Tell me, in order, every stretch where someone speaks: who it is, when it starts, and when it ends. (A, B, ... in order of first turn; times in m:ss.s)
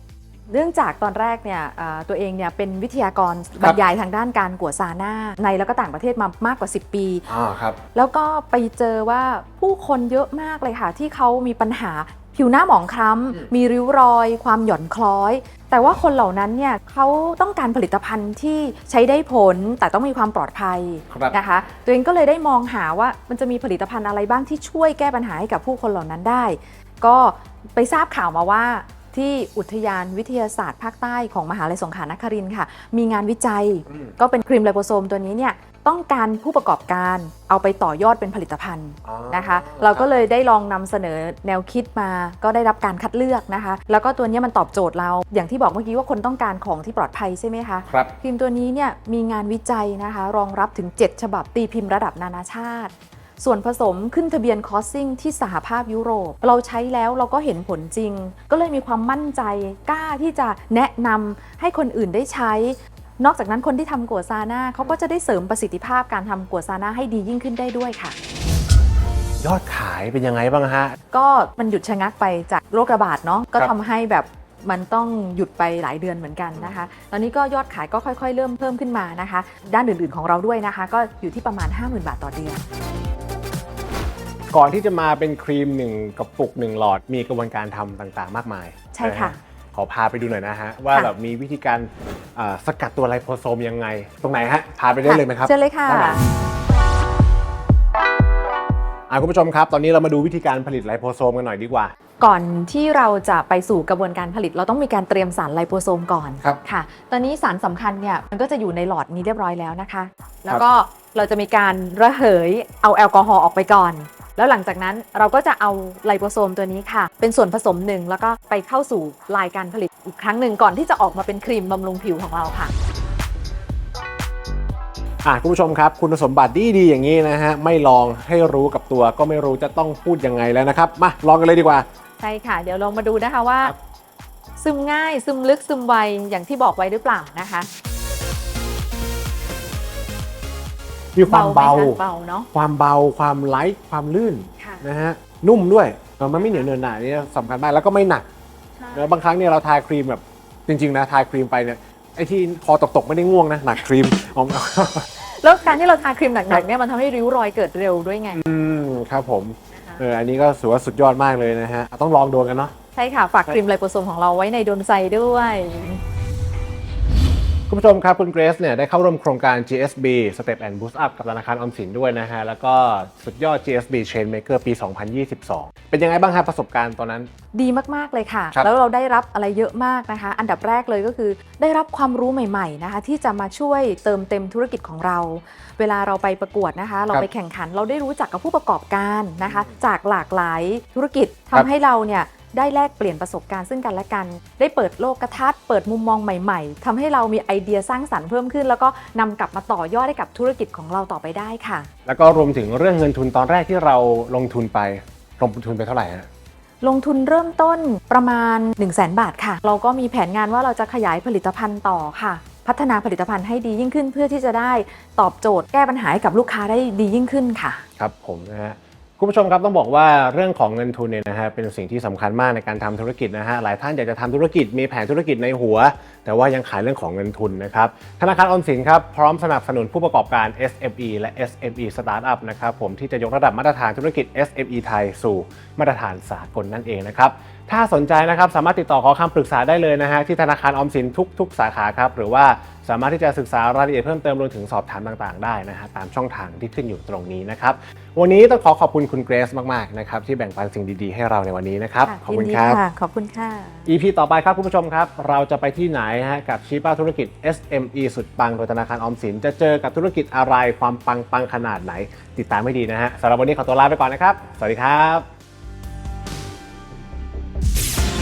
0:00.5-0:07.2 A
0:07.3-0:07.8 B
0:07.9-1:08.2 A
0:21.1-0:21.4 B
0:33.9-0:34.1 B
0:39.0-0:40.1 B
1:09.4-1:11.0 B
1:11.1-1:22.6 A
1:16.6-1:16.8 B
1:24.5-1:36.2 B
1:28.9-1:29.4 A
1:35.0-1:36.2 A
1:39.1-1:41.9 B
1:42.2-2:02.7 A
2:05.2-2:11.8 B
2:12.2-2:13.7 A
2:14.6-2:17.7 A
2:21.1-2:22.0 B
2:21.3-2:22.5 A
2:22.5-2:28.2 B
2:26.4-2:26.6 A
2:28.8-2:29.1 A
2:28.9-2:35.1 B
2:35.2-2:38.4 A
2:38.3-2:42.7 B
2:39.7-2:40.0 A
2:43.0-2:46.0 A
2:47.7-2:57.3 B
2:57.5-3:21.9 A
3:09.4-3:09.7 B
3:22.0-3:26.3 B
3:26.8-3:37.8 A
3:38.0-4:12.8 B
4:12.0-4:13.9 A
4:13.8-4:25.2 B